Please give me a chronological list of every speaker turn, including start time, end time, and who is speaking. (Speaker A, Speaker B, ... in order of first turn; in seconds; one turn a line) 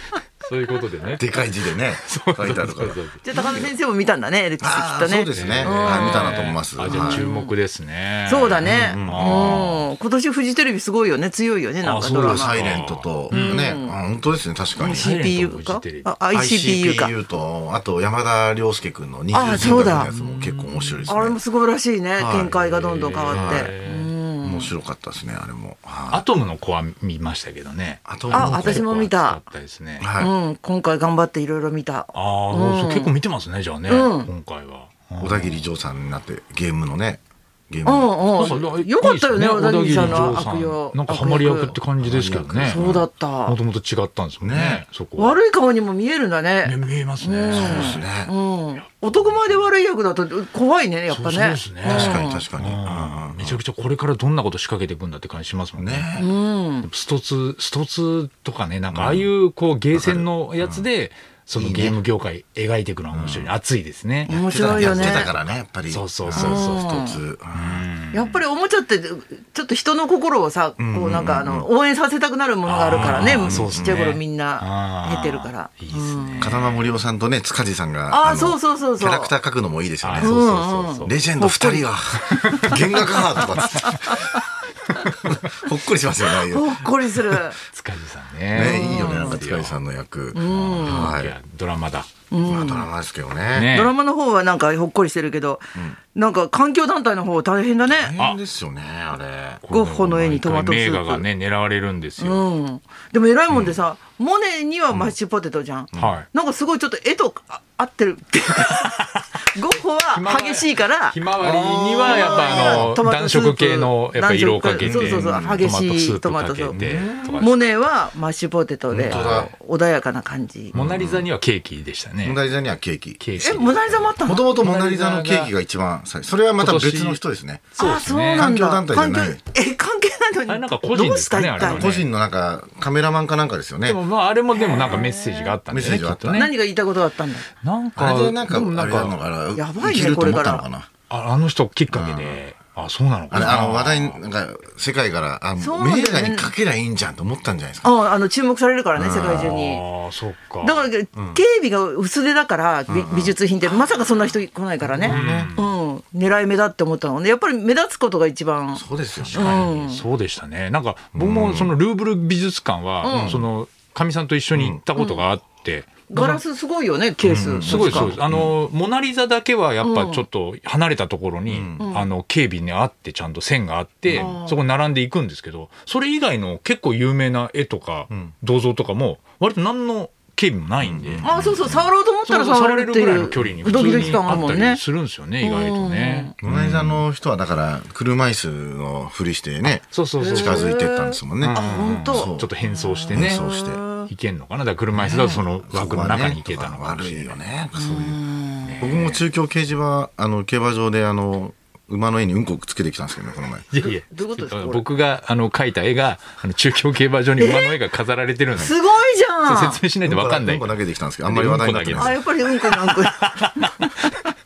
Speaker A: 0.4-3.2
Speaker B: 1.2-3.7
Speaker C: 3.2-7.5
Speaker B: 4.6-7.2
Speaker A: 5.3-9.8
Speaker C: 8.2-13.9
Speaker B: 8.6-9.7
Speaker A: 11.8-13.6
Speaker B: 12.2-15.1
Speaker C: 14.8-17.1
Speaker A: 14.8-16.1
Speaker B: 16.3-21.4
Speaker C: 19.3-20.1
Speaker A: 19.4-21.1
Speaker C: 21.1-24.7
Speaker B: 22.2-22.6
Speaker A: 22.6-24.1
Speaker B: 23.3-23.7
Speaker B: 24.4-26.2
Speaker A: 26.1-30.1
Speaker B: 28.1-28.8
Speaker C: 28.3-29.4
Speaker B: 30.0-30.3
Speaker C: 30.2-33.1
Speaker A: 32.1-35.6
Speaker C: 33.9-34.3
Speaker B: 35.2-38.3
Speaker C: 37.8-41.8
Speaker A: 38.4-42.8
Speaker B: 42.0-43.1
Speaker C: 42.3-43.5
Speaker A: 43.4-45.4
Speaker B: 44.4-44.8
Speaker C: 45.1-52.5
Speaker A: 46.6-48.0
Speaker B: 47.5-48.3
Speaker A: 51.1-56.1
Speaker B: 51.8-53.6
Speaker B: 55.8-56.4
Speaker C: 56.2-56.9
Speaker A: 56.8-67.0
Speaker B: 58.9-59.3
Speaker B: 59.9-60.8
Speaker B: 61.6-62.0
Speaker B: 63.1-63.5
Speaker C: 64.3-65.3
Speaker B: 64.3-67.8
Speaker C: 66.3-67.2
Speaker A: 67.5-68.4
Speaker C: 68.1-76.6
Speaker B: 70.8-71.7
Speaker A: 72.6-76.9
Speaker B: 72.9-74.0
Speaker B: 76.4-84.3
Speaker C: 78.1-79.3
Speaker A: 80.0-81.1
Speaker C: 80.2-81.9
Speaker A: 82.3-83.0
Speaker C: 82.6-84.4
Speaker B: 85.0-87.4
Speaker C: 86.4-87.6
Speaker A: 87.7-89.8
Speaker B: 88.5-91.3
Speaker C: 88.5-89.4
Speaker C: 90.3-91.1
Speaker A: 90.4-92.1
Speaker C: 92.3-92.9
Speaker B: 92.4-93.7
Speaker A: 93.5-93.9
Speaker C: 93.7-98.2
Speaker B: 97.9-99.6
Speaker A: 99.6-102.5
Speaker C: 99.7-101.2
Speaker C: 102.2-116.8
Speaker B: 103.5-103.8
Speaker A: 106.0-106.3
Speaker A: 110.1-117.7
Speaker B: 111.4-112.9
Speaker B: 114.8-115.7
Speaker B: 116.7-117.5
Speaker C: 117.4-120.7
Speaker B: 118.9-119.5
Speaker A: 119.1-119.5
Speaker A: 120.7-122.4
Speaker B: 120.7-121.3
Speaker B: 122.2-123.3
Speaker A: 123.2-125.5
Speaker C: 123.4-124.7
Speaker B: 124.2-127.7
Speaker A: 126.6-127.2
Speaker A: 127.7-128.5
Speaker C: 127.8-131.9
Speaker B: 128.2-129.4
Speaker A: 130.5-132.1
Speaker B: 131.6-134.0
Speaker A: 133.8-136.5
Speaker C: 134.5-135.6
Speaker B: 135.7-136.5
Speaker C: 136.3-137.5
Speaker A: 137.6-139.1
Speaker B: 137.9-140.9
Speaker C: 139.5-140.7
Speaker A: 141.1-144.2
Speaker B: 141.9-142.4
Speaker B: 143.3-147.9
Speaker C: 145.6-146.5
Speaker C: 147.8-149.8
Speaker B: 148.9-149.5
Speaker A: 149.3-150.8
Speaker C: 150.6-160.0
Speaker B: 151.1-151.4
Speaker B: 152.9-153.3
Speaker B: 154.8-155.5
Speaker A: 155.0-155.7
Speaker B: 158.7-159.7
Speaker A: 159.2-166.4
Speaker B: 161.1-161.7
Speaker C: 163.0-163.4
Speaker B: 163.1-163.4
Speaker B: 164.5-164.8
Speaker C: 164.9-165.2
Speaker C: 166.1-168.1
Speaker B: 167.2-168.5
Speaker A: 167.6-187.0
Speaker C: 169.8-170.2
Speaker B: 171.5-171.9
Speaker C: 171.8-172.1
Speaker B: 174.1-174.3
Speaker C: 174.1-174.6
Speaker B: 180.8-181.7
Speaker C: 181.2-184.8
Speaker B: 183.4-184.2
Speaker C: 185.4-186.3
Speaker B: 186.4-192.5
Speaker A: 189.9-190.7
Speaker C: 190.2-194.1
Speaker A: 191.4-193.4
Speaker B: 193.1-193.8
Speaker A: 194.1-197.3
Speaker B: 194.9-198.2
Speaker C: 195.1-195.4
Speaker C: 197.8-198.9
Speaker A: 198.6-199.2
Speaker B: 198.8-203.7
Speaker A: 203.7-208.8
Speaker C: 203.8-204.8
Speaker C: 207.4-207.8
Speaker C: 208.6-209.8
Speaker A: 209.4-213.8
Speaker B: 210.1-212.2
Speaker C: 211.9-214.1